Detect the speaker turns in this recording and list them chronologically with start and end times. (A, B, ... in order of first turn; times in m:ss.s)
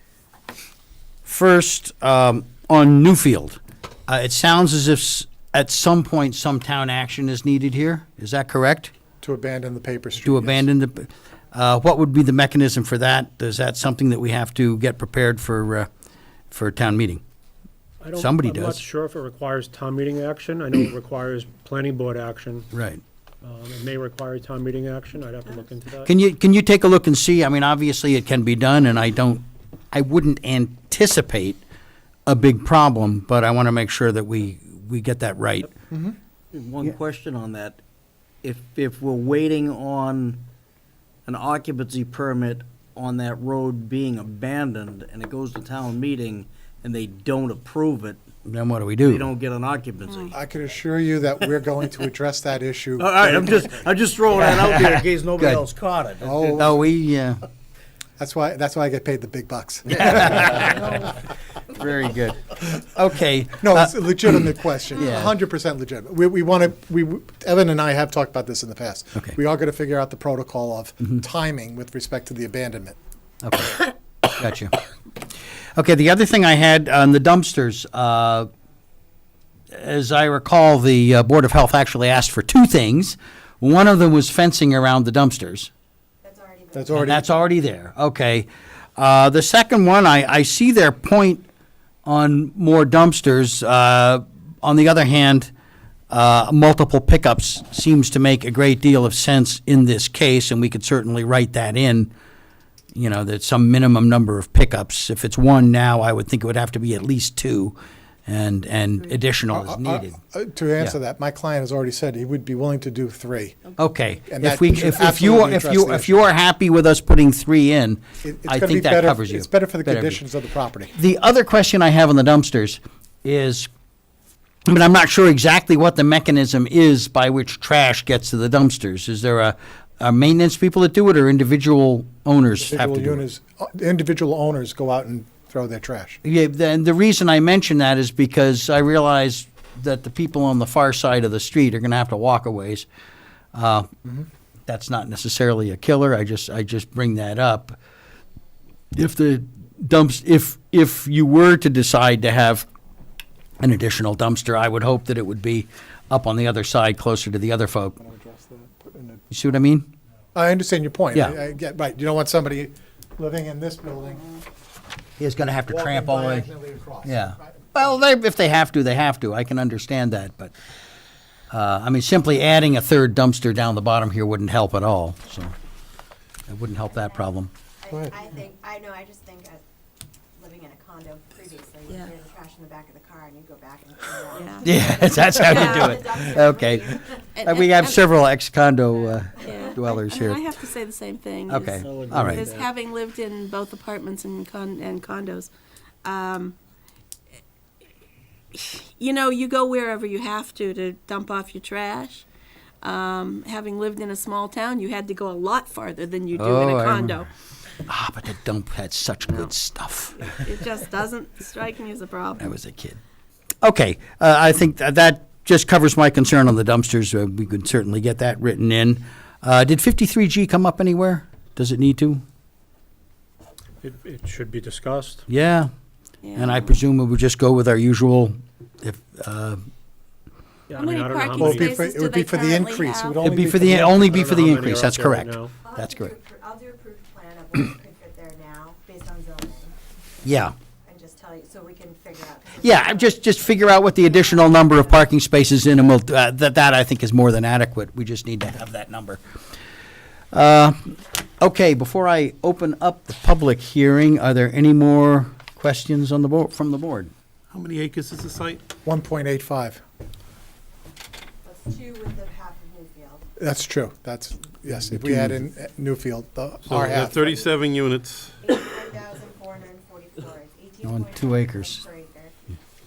0:01.2-0:08.9 A
0:09.2-0:10.7 B
0:10.2-0:15.9 A
0:16.5-0:17.2 A
0:18.0-0:22.7 C
0:18.2-0:18.8 A
0:22.7-0:23.0 A
0:23.4-0:26.1 C
0:26.0-0:31.6 A
0:32.3-0:35.7 A
0:35.9-0:36.2 B
0:36.5-0:37.8 D
0:38.4-0:40.4 D
0:41.3-0:48.2 D
0:48.4-0:49.3 A
0:49.0-0:50.3 D
0:50.3-0:53.8 B
0:53.0-0:56.6 D
0:54.4-0:55.6 A
0:56.2-0:56.8 B
0:56.6-0:57.4 A
0:58.2-1:00.9 B
1:00.0-1:01.1 A
1:01.8-1:05.3 A
1:03.6-1:13.0 B
1:13.4-1:14.8 A
1:15.8-1:18.5 A
1:19.7-1:25.7 A
1:26.2-1:27.2 E
1:26.7-1:27.2 B
1:27.0-1:31.4 A
1:32.0-1:35.5 A
1:36.1-1:42.1 A
1:42.9-1:47.8 A
1:48.3-1:50.2 A
1:49.5-1:53.6 B
1:53.8-2:00.2 A
1:54.3-1:56.3 B
1:58.2-2:01.0 B
2:01.0-2:03.7 A
2:04.7-2:13.2 A
2:12.6-2:16.2 B
2:16.2-2:22.9 A
2:23.5-2:23.9 A
2:24.7-2:27.8 A
2:29.0-2:32.7 A
2:33.6-2:38.0 A
2:38.0-2:39.2 B
2:39.3-2:39.9 A
2:40.3-2:44.3 B
2:45.2-2:46.5 A
2:45.7-2:47.6 B
2:47.0-2:50.6 A
2:51.5-2:55.5 A
2:56.5-2:57.5 A
2:56.9-2:57.2 E
2:57.8-2:59.6 E
3:00.4-3:07.3 E
3:04.3-3:04.7 F
3:04.6-3:10.4 A
3:05.2-3:06.0 F
3:07.4-3:08.1 F
3:09.4-3:09.8 E
3:09.4-3:15.5 F
3:11.5-3:12.5 A
3:11.8-3:12.7 C
3:16.0-3:16.6 F
3:18.5-3:22.2 F
3:22.8-3:27.3 F
3:26.4-3:27.2 A
3:27.9-3:30.4 A
3:30.2-3:32.5 F
3:32.4-3:33.0 A
3:33.6-3:42.2 A
3:43.8-3:45.2 C
3:45.3-3:45.7 A
3:46.2-3:46.8 F
3:46.4-3:49.6 A
3:50.7-3:51.7 C
3:50.8-3:53.3 F
3:51.4-3:54.4 B
3:53.2-3:56.1 A
3:53.9-3:55.5 C
3:55.6-3:59.7 E
4:00.2-4:00.5 A
4:00.8-4:05.1 E
4:02.6-4:09.2 A
4:10.3-4:17.1 A
4:17.5-4:18.6 G
4:18.8-4:19.8 B
4:21.4-4:23.3 E
4:23.4-4:27.4 B
4:24.9-4:25.3 A
4:26.6-4:28.4 G
4:28.4-4:32.3 E
4:30.8-4:31.8 A